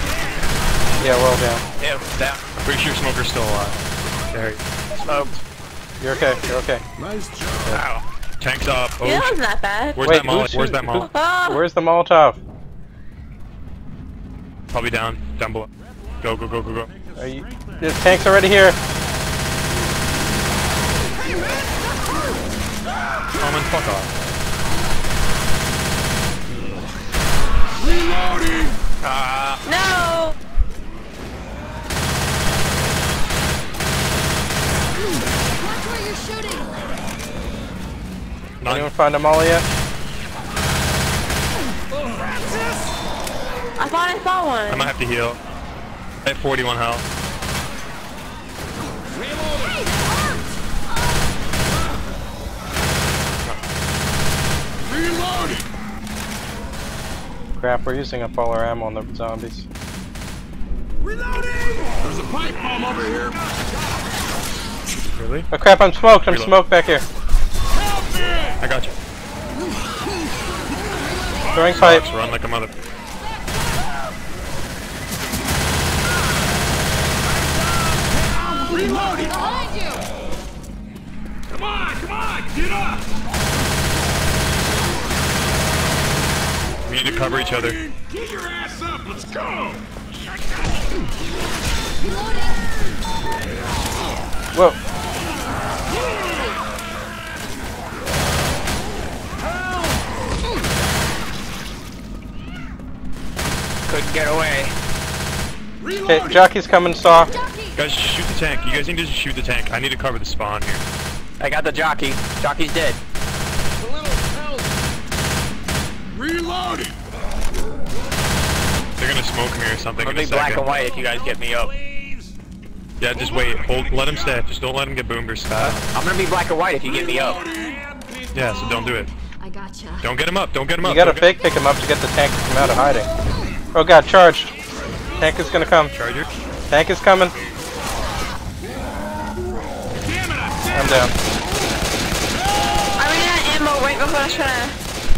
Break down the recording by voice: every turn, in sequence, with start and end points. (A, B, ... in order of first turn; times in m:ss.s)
0:01.0-0:01.6 A
0:01.8-0:02.4 B
0:02.6-0:05.4 C
0:05.0-0:05.3 B
0:06.0-0:06.8 A
0:07.0-0:07.8 D
0:07.7-0:08.0 B
0:08.4-0:09.4 C
0:09.0-0:10.1 E
0:09.9-0:11.1 C
0:10.0-0:12.4 A
0:11.1-0:11.6 E
0:14.7-0:15.7 C
0:16.2-0:16.9 C
0:16.2-0:18.2 D
0:17.2-0:18.8 A
0:23.4-0:24.1 C
0:27.8-0:28.8 D
0:29.0-0:29.6 B
0:29.6-0:30.3 E
0:35.6-0:36.7 F
0:38.6-0:38.9 C
0:38.6-0:39.6 A
0:41.9-0:42.8 D
0:43.8-0:44.9 E
0:44.7-0:45.4 C
0:46.2-0:47.0 C
0:49.1-0:49.9 D
0:49.6-0:50.4 F
0:54.8-0:55.7 D
0:57.5-0:59.7 A
1:01.0-1:04.0 D
1:05.2-1:05.5 C
1:05.5-1:07.0 A
1:06.2-1:06.6 C
1:07.7-1:08.6 D
1:08.6-1:09.0 C
1:10.7-1:11.7 F
1:11.5-1:12.1 A
1:11.7-1:12.7 C
1:17.2-1:19.4 D
1:18.6-1:20.1 F
1:21.5-1:23.1 D
1:26.8-1:27.8 C
1:27.0-1:29.8 D
1:30.4-1:30.8 D
1:32.0-1:32.7 F
1:34.5-1:34.8 A
1:35.9-1:36.5 D
1:43.9-1:44.7 B
1:45.8-1:46.5 D
1:46.0-1:47.3 A
1:47.1-1:47.8 F
1:47.7-1:50.8 C
1:51.4-1:53.0 B
1:53.8-1:54.9 D
1:56.1-1:57.0 D
1:59.0-2:00.7 C
2:00.0-2:01.7 B
2:00.6-2:02.3 D
2:03.0-2:05.8 C
2:03.1-2:04.4 D
2:05.6-2:07.4 B
2:06.8-2:09.0 D
2:08.3-2:09.1 C
2:09.4-2:10.1 F
2:10.0-2:11.3 C
2:10.8-2:13.1 A
2:13.7-2:14.5 A
2:15.2-2:15.9 A
2:15.9-2:16.3 C
2:16.7-2:17.4 A
2:20.0-2:20.8 D
2:20.7-2:21.1 A
2:22.6-2:23.2 D
2:23.0-2:24.8 E